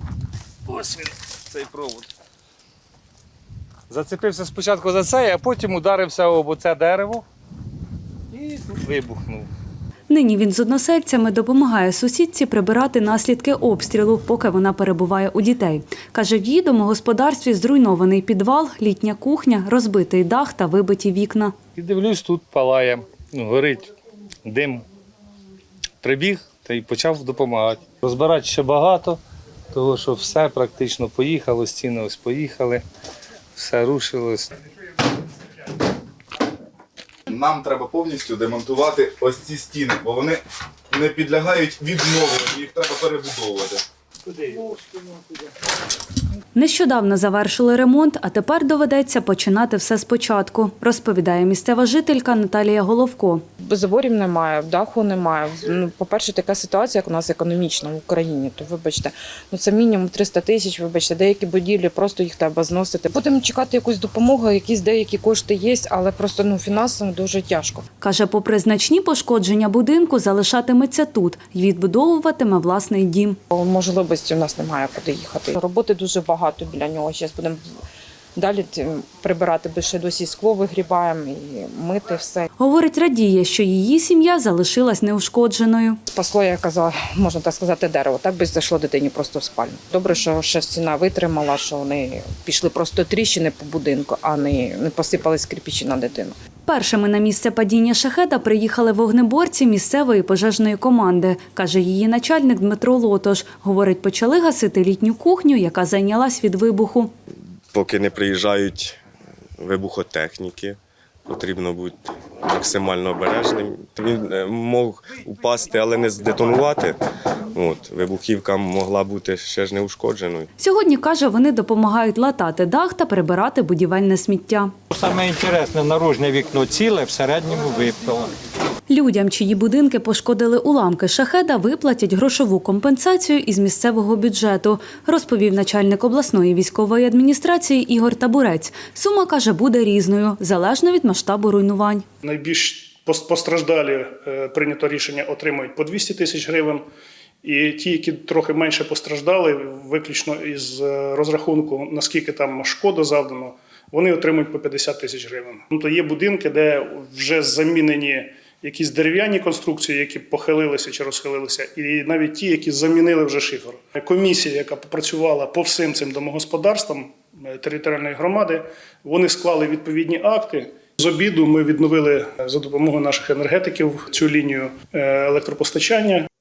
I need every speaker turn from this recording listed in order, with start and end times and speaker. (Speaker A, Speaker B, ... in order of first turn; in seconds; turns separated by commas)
Speaker A: 0.7-2.1, Speaker A: 3.9-7.2, Speaker A: 8.3-9.5, Speaker B: 10.1-21.5, Speaker A: 21.8-23.9, Speaker A: 24.4-24.8, Speaker A: 26.0-29.2, Speaker A: 29.7-32.8, Speaker A: 33.5-34.5, Speaker C: 37.3-43.8, Speaker A: 44.3-45.2, Speaker B: 46.5-53.4, Speaker D: 53.6-67.8, Speaker B: 68.0-73.4, Speaker D: 73.5-77.6, Speaker D: 78.3-82.5, Speaker B: 82.6-86.0, Speaker D: 86.1-96.3, Speaker B: 96.7-107.1, Speaker E: 107.7-109.0, Speaker E: 109.6-117.0, Speaker E: 117.5-120.5, Speaker B: 120.6-124.7, Speaker F: 124.9-128.3, Speaker B: 128.9-142.0, Speaker G: 142.2-146.8, Speaker G: 147.4-176.2